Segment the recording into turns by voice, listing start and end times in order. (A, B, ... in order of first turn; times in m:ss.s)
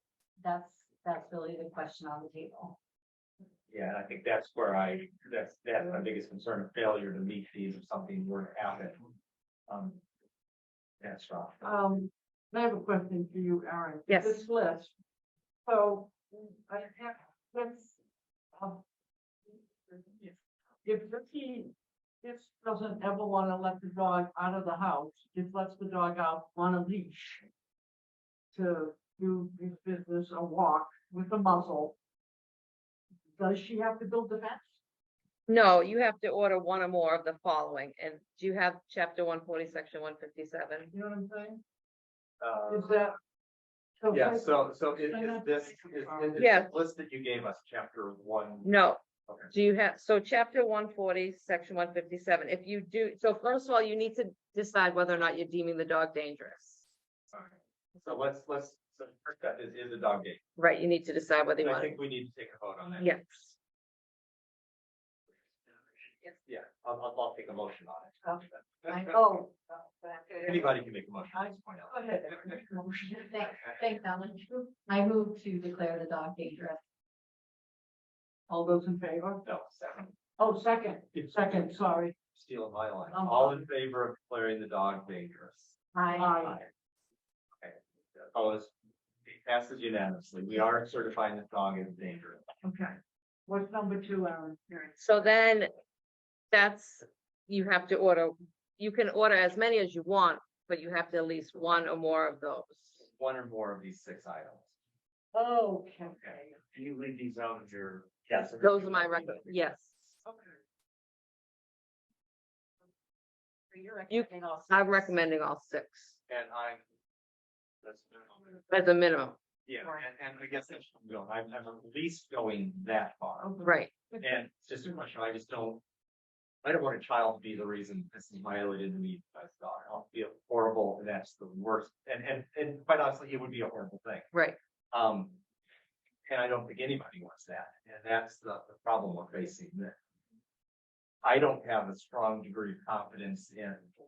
0:00.4-0:02.8 A
0:03.7-0:09.0 B
0:09.7-0:10.0 B
0:11.0-0:11.6 B
0:11.6-0:14.9 C
0:14.1-0:14.4 D
0:15.6-0:18.0 C
0:18.5-0:18.8 C
0:20.8-0:27.4 C
0:28.5-0:31.9 C
0:33.4-0:34.8 C
0:35.5-0:40.9 D
0:40.9-0:41.6 C
0:42.4-0:42.9 B
0:42.7-0:43.2 C
0:44.0-0:46.4 C
0:44.1-0:48.7 B
0:46.4-0:46.7 D
0:48.6-0:49.0 D
0:49.5-0:56.8 D
0:58.0-1:00.4 B
1:00.6-1:02.0 D
1:01.6-1:03.1 B
1:03.0-1:03.5 D
1:06.4-1:09.1 B
1:09.0-1:10.7 C
1:10.4-1:11.9 B
1:11.3-1:12.8 C
1:12.5-1:16.8 A
1:18.5-1:19.4 C
1:19.4-1:20.1 B
1:20.4-1:22.2 C
1:21.1-1:21.4 B
1:22.3-1:25.7 B
1:23.1-1:23.6 C
1:25.9-1:26.5 A
1:26.2-1:26.6 C
1:26.4-1:26.7 B
1:27.6-1:28.7 B
1:29.2-1:32.5 B
1:32.6-1:35.0 C
1:35.0-1:35.7 D
1:36.5-1:43.0 D
1:43.1-1:44.7 B
1:45.3-1:46.6 C
1:46.1-1:49.5 B
1:48.6-1:49.9 D
1:50.2-1:50.5 C
1:53.7-1:55.2 A
1:54.1-1:56.2 D
1:56.3-1:56.8 B
1:57.8-1:58.6 B
1:58.7-1:59.4 D
1:59.7-2:03.6 B
2:03.4-2:04.2 C
2:03.6-2:03.9 D
2:04.2-2:05.8 B
2:06.6-2:14.3 B
2:14.9-2:15.4 B
2:16.3-2:20.0 B
2:21.2-2:23.9 B